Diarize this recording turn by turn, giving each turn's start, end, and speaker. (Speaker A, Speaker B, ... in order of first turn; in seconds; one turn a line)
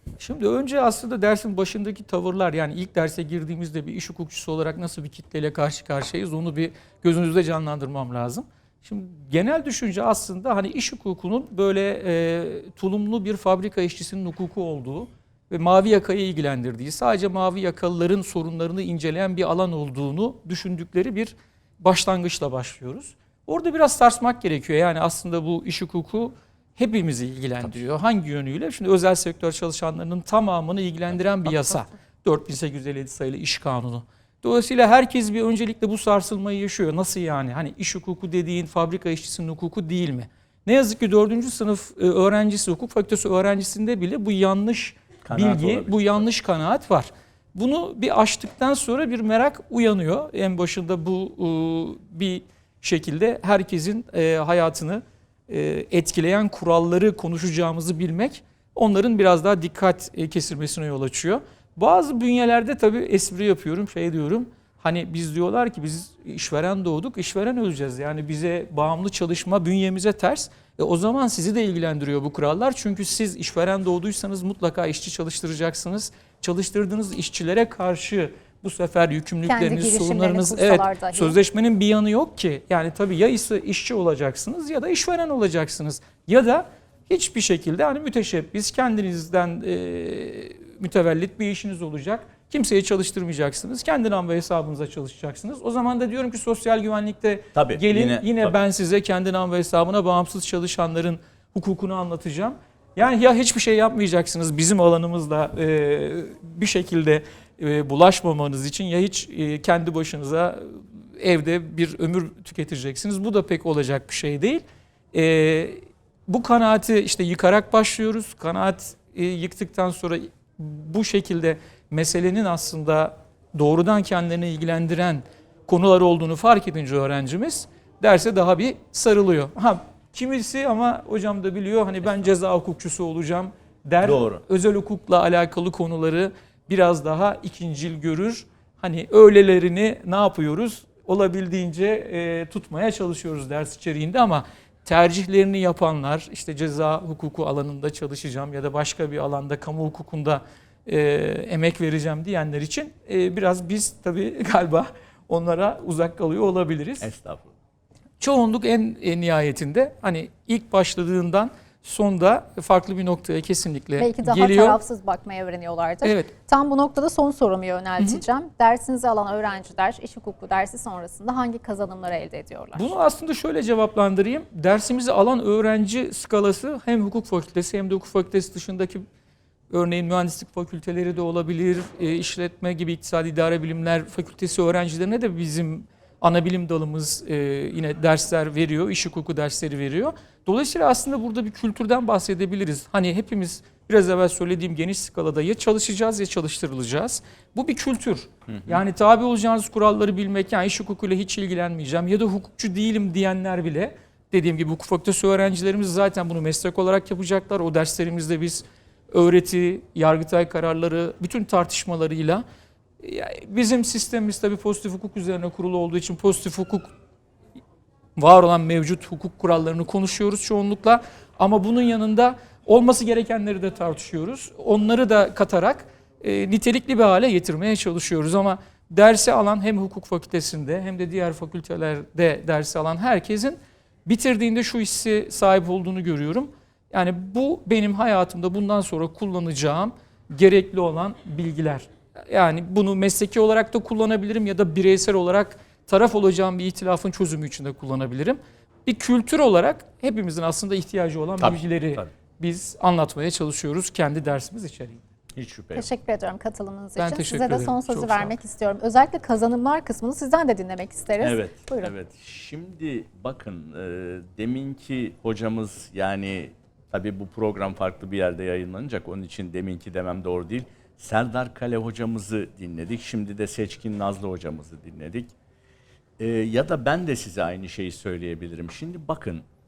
Speaker A: 0.2-157.1
Speaker B: 45.2-46.2
Speaker C: 79.5-81.4
Speaker B: 97.5-98.5
Speaker B: 134.0-134.4
Speaker B: 157.0-157.5
Speaker A: 158.2-164.8
Speaker C: 164.0-172.9
Speaker A: 166.0-166.3
Speaker A: 172.8-179.0
Speaker A: 179.7-212.4
Speaker B: 198.5-198.8
Speaker A: 213.0-216.9
Speaker A: 218.2-255.0
Speaker B: 251.4-252.1
Speaker B: 255.3-255.9
Speaker C: 255.8-261.9
Speaker A: 257.0-258.3
Speaker B: 261.2-275.3
Speaker B: 276.2-279.5